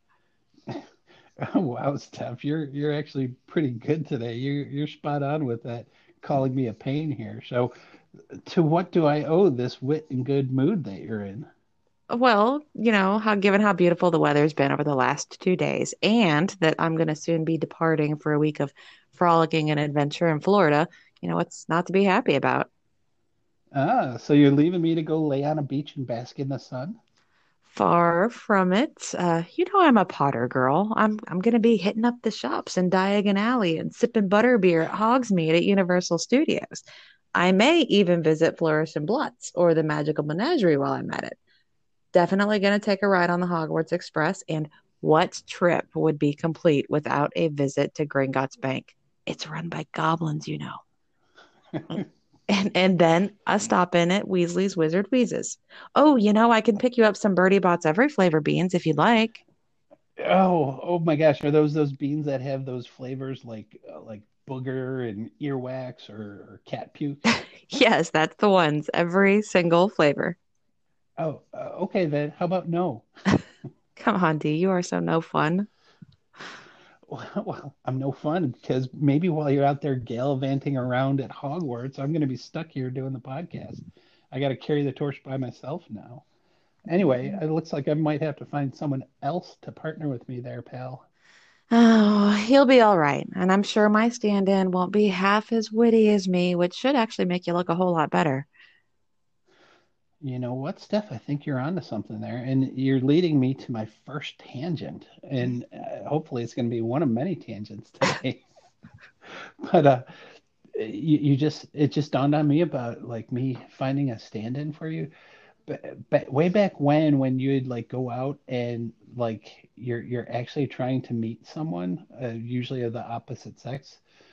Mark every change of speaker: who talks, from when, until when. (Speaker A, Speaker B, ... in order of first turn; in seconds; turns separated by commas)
Speaker A: 1.4-7.7, Speaker A: 8.3-11.5, Speaker B: 12.1-22.7, Speaker A: 23.7-27.0, Speaker B: 27.7-41.4, Speaker B: 42.1-50.8, Speaker A: 51.7-52.0, Speaker B: 51.9-59.4, Speaker A: 60.2-67.2, Speaker B: 67.3-70.4, Speaker A: 71.2-73.0, Speaker B: 74.0-75.7, Speaker A: 77.0-86.2, Speaker A: 86.9-91.0, Speaker B: 91.7-98.5, Speaker A: 100.2-108.4, Speaker A: 109.2-110.0, Speaker A: 110.7-115.1, Speaker A: 115.7-124.0